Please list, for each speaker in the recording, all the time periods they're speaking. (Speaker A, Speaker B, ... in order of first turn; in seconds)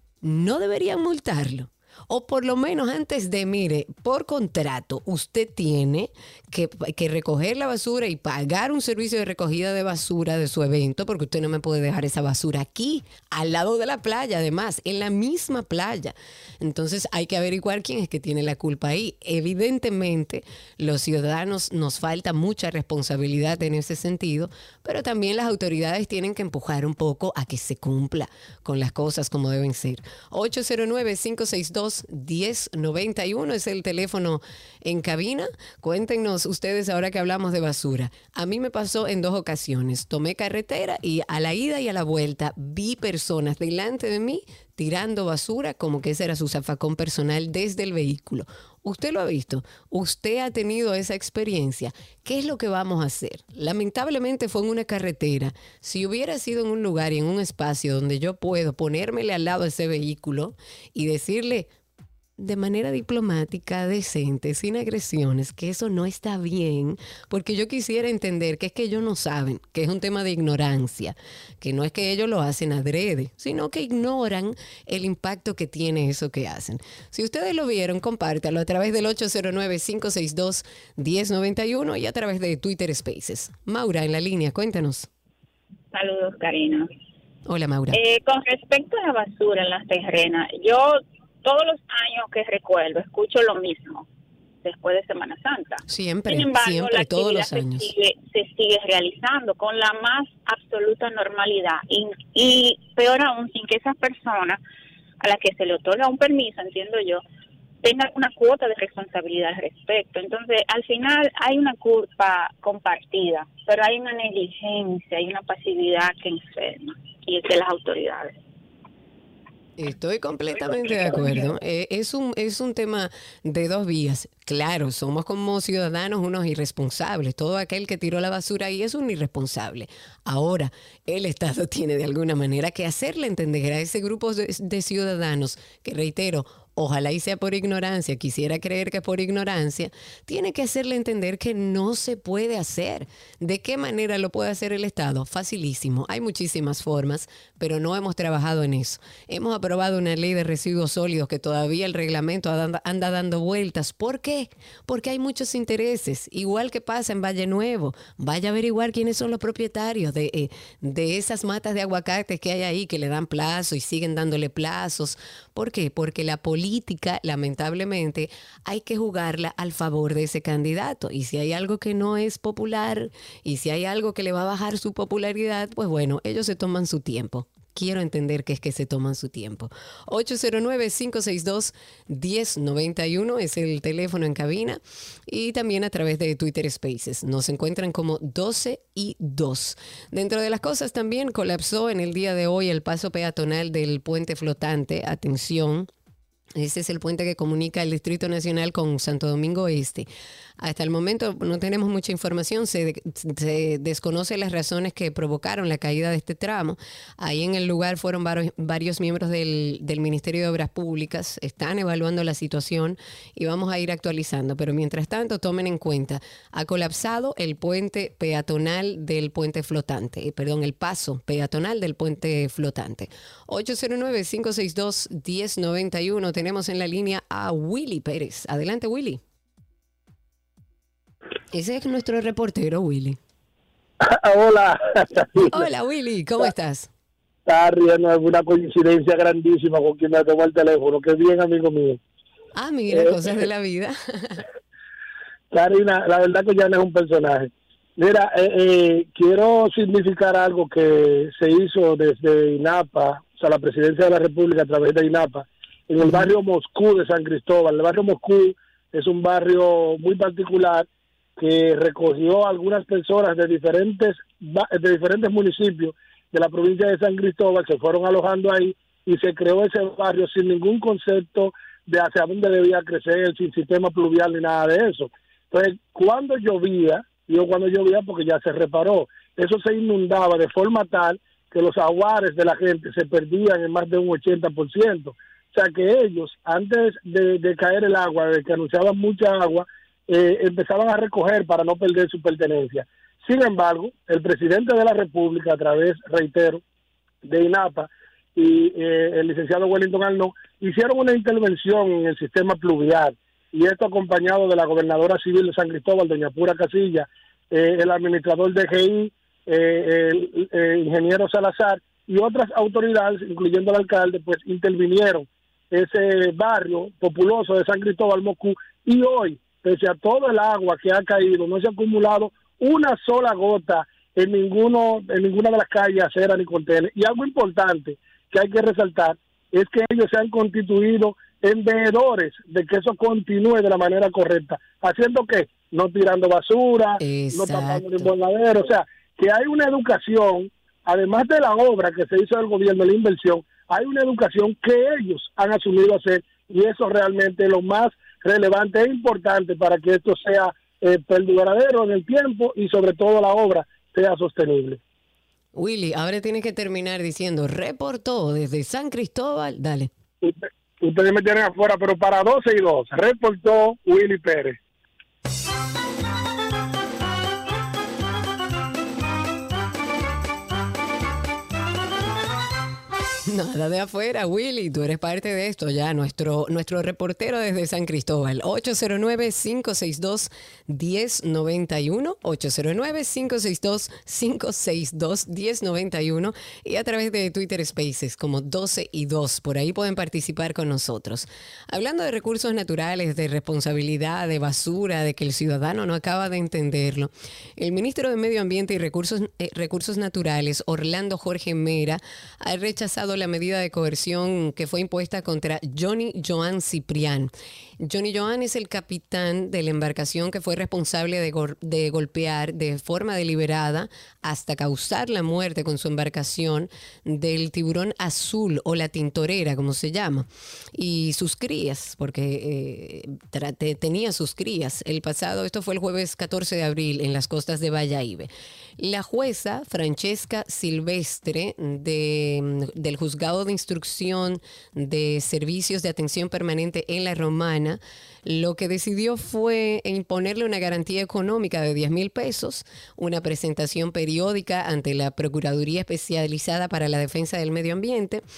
Speaker A: 0.2-61.7, 62.4-85.1, 87.5-88.0, 95.9-97.9, 119.8-195.9, 196.6-200.1, 200.6-229.2, 231.5-233.2, 235.5-236.9, 242.6-244.4, 256.0-256.3, 337.0-338.1, 355.6-359.9, 373.3-448.2
Speaker B: 85.9-86.9, 87.9-94.1, 94.6-104.6, 105.2-107.2, 107.8-118.3, 120.6-121.5
Speaker C: 234.0-235.7, 237.5-242.0, 242.9-243.3, 245.5-260.9, 261.4-296.6, 297.2-354.8, 360.2-364.6